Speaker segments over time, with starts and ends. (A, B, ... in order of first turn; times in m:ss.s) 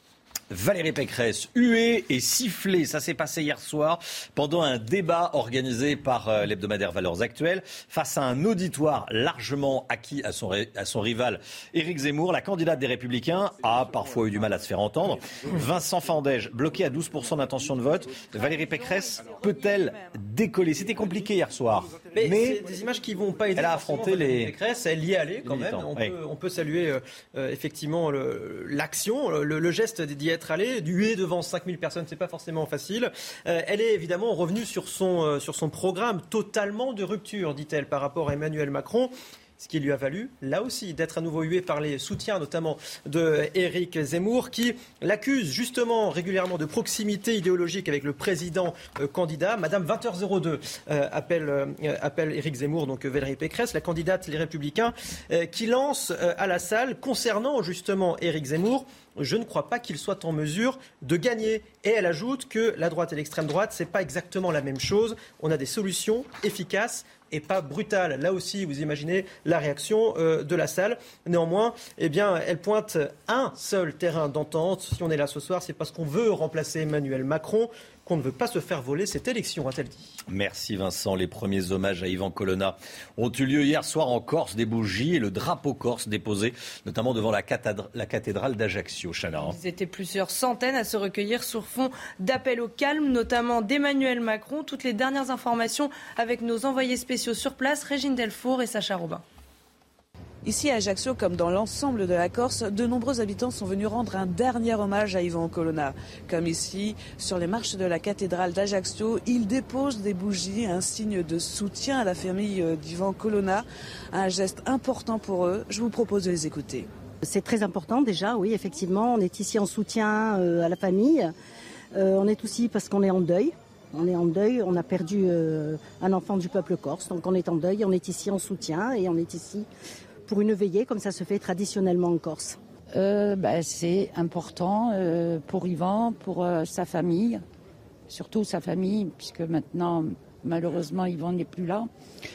0:00.5-0:22.6 A
0:22.1-1:20.2 B
0:23.5-0:24.5 A
0:25.4-0:26.1 A
1:20.3-1:29.6 A
1:29.4-1:39.2 C
1:40.4-1:56.9 D
1:57.2-2:01.3 E
2:01.9-2:09.7 E
2:10.3-2:12.6 E
2:12.9-2:17.4 F
2:18.1-2:21.9 F